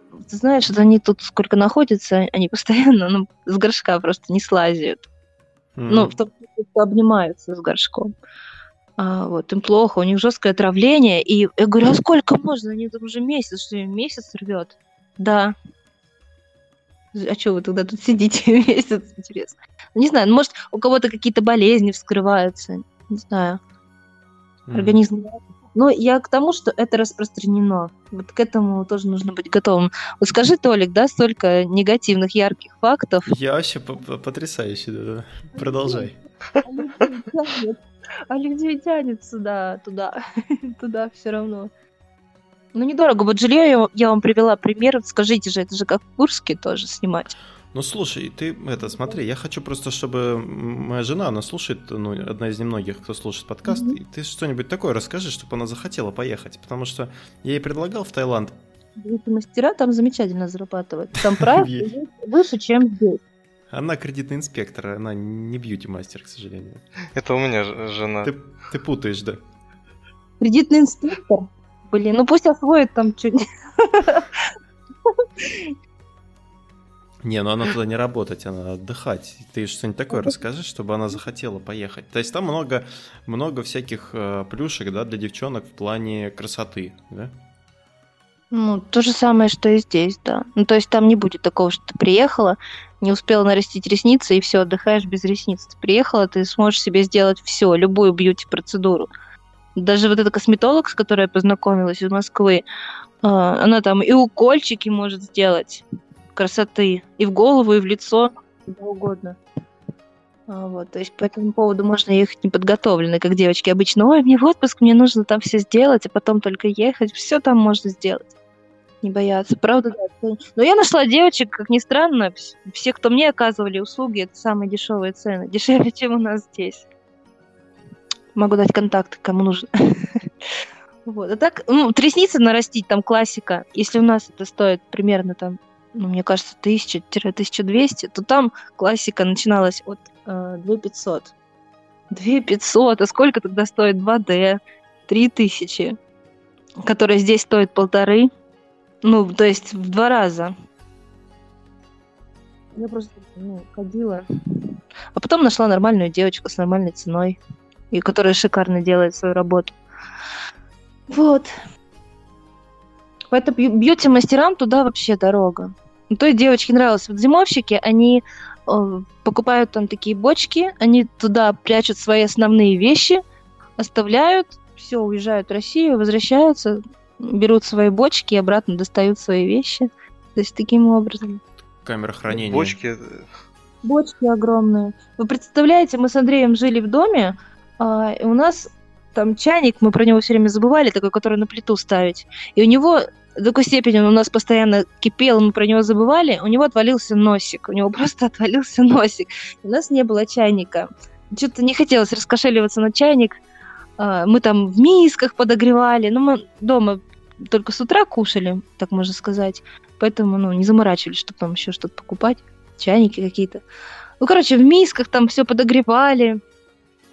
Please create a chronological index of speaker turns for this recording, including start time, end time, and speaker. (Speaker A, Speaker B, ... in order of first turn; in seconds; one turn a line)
Speaker A: 0.2-5.0
Speaker B: 5.8-6.1
Speaker A: 5.9-8.1
Speaker A: 9.0-15.5
Speaker A: 17.1-23.6
Speaker B: 24.6-25.0
Speaker A: 24.7-33.3
Speaker B: 33.3-36.1
Speaker A: 35.6-36.1
Speaker A: 36.6-40.2
Speaker A: 40.8-41.7
Speaker A: 42.7-47.4
Speaker B: 47.7-58.6
Speaker A: 48.9-49.2
Speaker A: 53.6-54.0
Speaker A: 59.0-63.2
Speaker B: 61.6-61.9
Speaker B: 63.7-66.8
Speaker C: 67.1-68.3
Speaker B: 68.2-69.4
Speaker A: 70.4-74.5
Speaker A: 75.1-75.7
Speaker B: 77.2-87.3
Speaker A: 88.5-99.1
Speaker A: 99.8-102.6
Speaker A: 103.2-109.4
Speaker A: 110.5-118.2
Speaker A: 119.0-126.8
Speaker A: 128.3-129.7
Speaker A: 131.1-141.3
Speaker A: 142.1-145.9
Speaker A: 146.8-148.3
Speaker A: 149.0-150.5
Speaker A: 152.8-154.2
Speaker A: 155.1-157.4
Speaker A: 157.9-159.7
Speaker A: 161.1-161.5
Speaker A: 163.3-173.2
Speaker A: 173.8-181.4
Speaker B: 181.8-182.8
Speaker C: 182.3-183.3
Speaker A: 183.8-203.4
Speaker A: 204.0-213.6
Speaker A: 214.2-216.4